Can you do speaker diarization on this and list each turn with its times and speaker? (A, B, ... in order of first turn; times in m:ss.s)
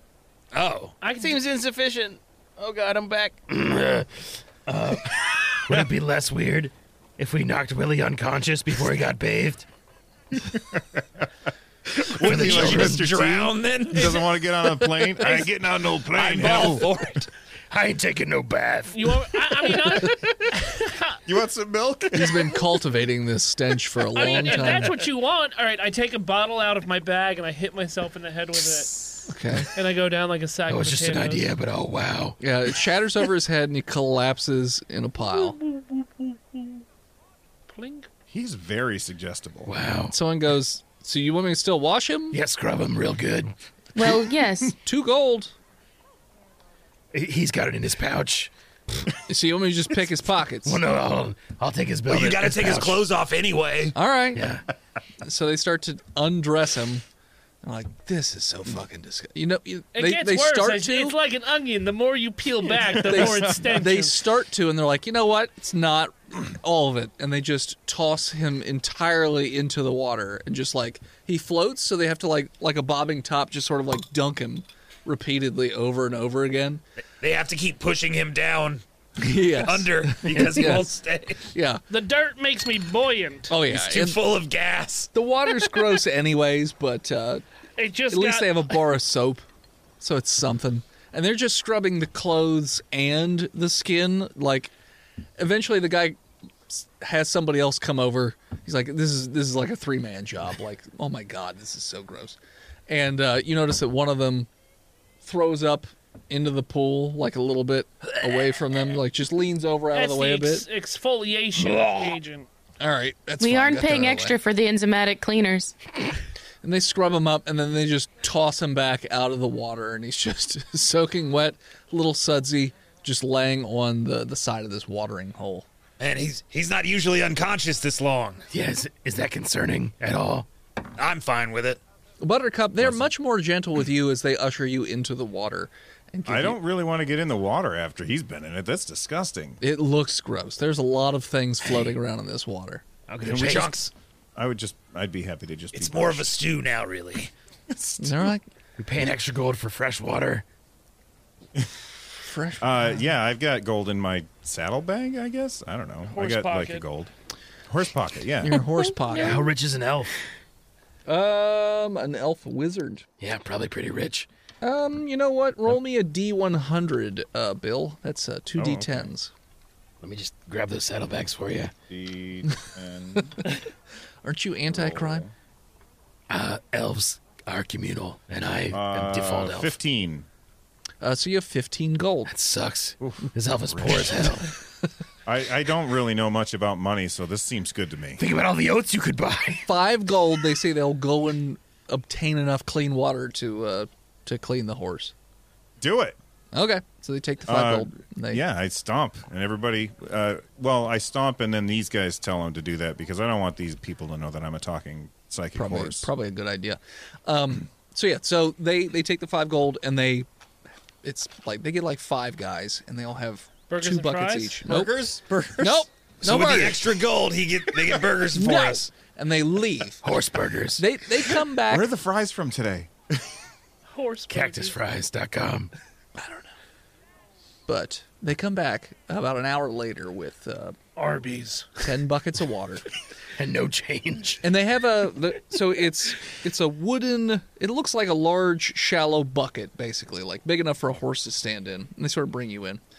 0:00.5-0:00.9 A
0:01.0-0:01.4 B
0:01.2-0:03.6 C
0:03.5-0:09.7 D
0:10.5-0:11.2 E
0:11.9-0:16.9 E
0:12.0-0:14.2 A
0:12.2-0:13.1 D
0:16.1-0:17.3 A
0:17.7-0:19.8 D
0:18.9-0:21.2 B
0:21.2-0:22.6 E
0:22.1-0:24.9 F
0:24.1-0:31.5 B
0:29.3-0:29.7 F
0:30.7-0:32.4 D
0:32.4-0:35.6 F
0:35.2-0:36.8 B
0:37.7-0:38.1 B
0:38.3-0:39.7 E
0:39.6-0:40.2 D
0:40.1-0:42.4 F
0:42.3-0:43.5 D
0:43.9-0:44.7 G
0:44.8-0:45.5 F
0:47.1-0:49.0 D
0:49.2-0:50.8 F
0:50.6-0:53.0 D
0:52.1-0:53.9 A
0:53.9-0:54.5 F
0:54.3-0:54.6 D
0:55.2-0:57.0 F
0:57.6-1:01.2 F
0:59.9-1:04.2 B
1:03.0-1:16.8 F
1:17.2-1:18.8 A
1:19.2-1:20.9 F
1:19.5-1:21.5 A
1:21.5-1:21.8 F
1:21.9-1:23.5 B
1:23.5-1:24.2 F
1:23.7-1:25.1 A
1:25.1-1:27.4 F
1:27.8-1:28.8 B
1:28.1-1:29.4 F
1:30.0-1:34.7 F
1:35.4-1:44.5 F
1:45.2-1:50.6 F
1:49.9-1:52.5 B
1:52.8-1:54.4 F
1:53.4-1:55.8 G
1:56.6-2:05.7 F
2:06.0-2:08.4 A
2:08.5-2:10.5 D
2:11.0-2:11.8 A
2:12.2-2:16.6 F
2:12.8-2:13.1 E
2:16.2-2:19.6 E
2:19.6-2:22.8 F
2:21.6-2:21.9 D
2:23.1-2:23.8 D
2:23.2-2:23.9 A
2:24.4-2:26.3 E
2:25.7-2:27.3 A
2:27.7-2:28.2 E
2:28.0-2:28.4 F
2:28.8-2:30.4 D
2:32.2-2:33.1 F
2:32.6-2:37.1 E
2:36.1-2:36.8 B
2:37.7-2:38.7 E
2:38.4-2:39.5 F
2:39.1-2:40.1 D
2:41.1-2:43.0 F
2:43.2-2:44.3 D
2:44.6-2:49.3 F
2:48.6-2:49.1 E
2:50.0-2:51.8 D
2:51.9-2:53.5 E
2:54.2-2:55.2 F
2:54.7-2:55.3 E
2:56.3-2:59.8 D
2:58.7-3:00.3 E
3:01.0-3:02.3 F
3:02.3-3:04.5 D
3:03.0-3:04.2 E
3:05.2-3:08.2 E
3:08.2-3:09.7 D
3:09.6-3:15.1 F
3:15.8-3:16.2 E
3:16.5-3:18.4 F
3:17.5-3:26.1 E
3:25.5-3:30.3 F
3:31.0-3:37.0 F
3:33.7-3:34.6 B
3:36.2-3:38.8 A
3:38.3-3:40.1 F
3:40.0-3:40.9 D
3:40.8-3:41.9 F
3:41.6-3:43.3 E
3:43.9-3:44.8 B
3:44.3-3:45.7 D
3:46.2-3:46.5 F
3:47.6-3:50.8 F
3:51.0-3:51.7 B
3:51.8-3:52.8 F
3:53.3-3:54.4 D
3:54.4-4:02.8 F